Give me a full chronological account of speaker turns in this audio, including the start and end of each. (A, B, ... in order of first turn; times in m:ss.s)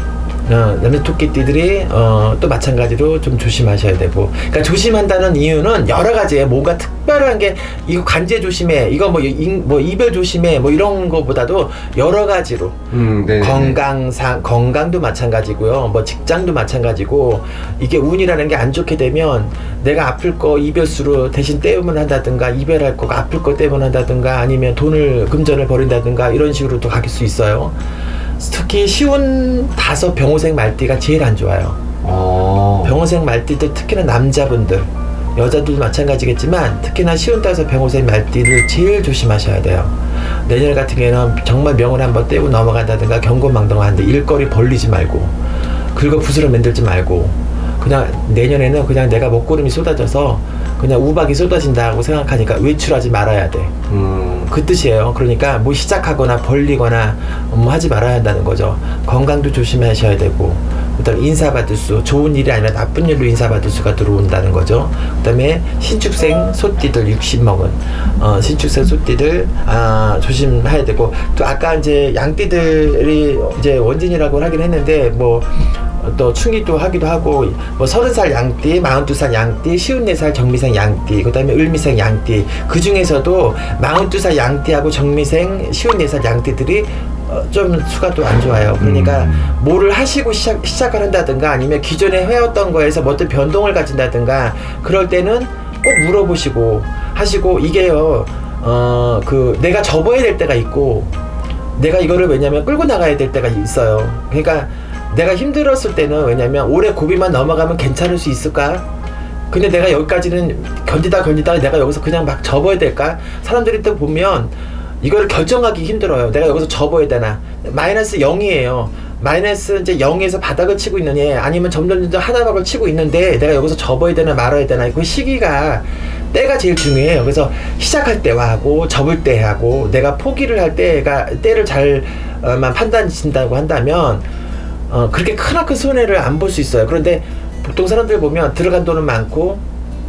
0:00.4-0:27.8 A
0:12.9-0:13.8 B
0:28.4-0:31.8 A
0:32.0-0:33.0 B
0:32.8-0:45.3 A
0:45.9-0:53.7 A
0:53.9-0:54.5 B
0:54.5-1:41.1 A
1:28.8-1:29.6 B
1:41.8-1:48.9 A
1:49.5-2:14.2 A
2:14.9-2:19.6 A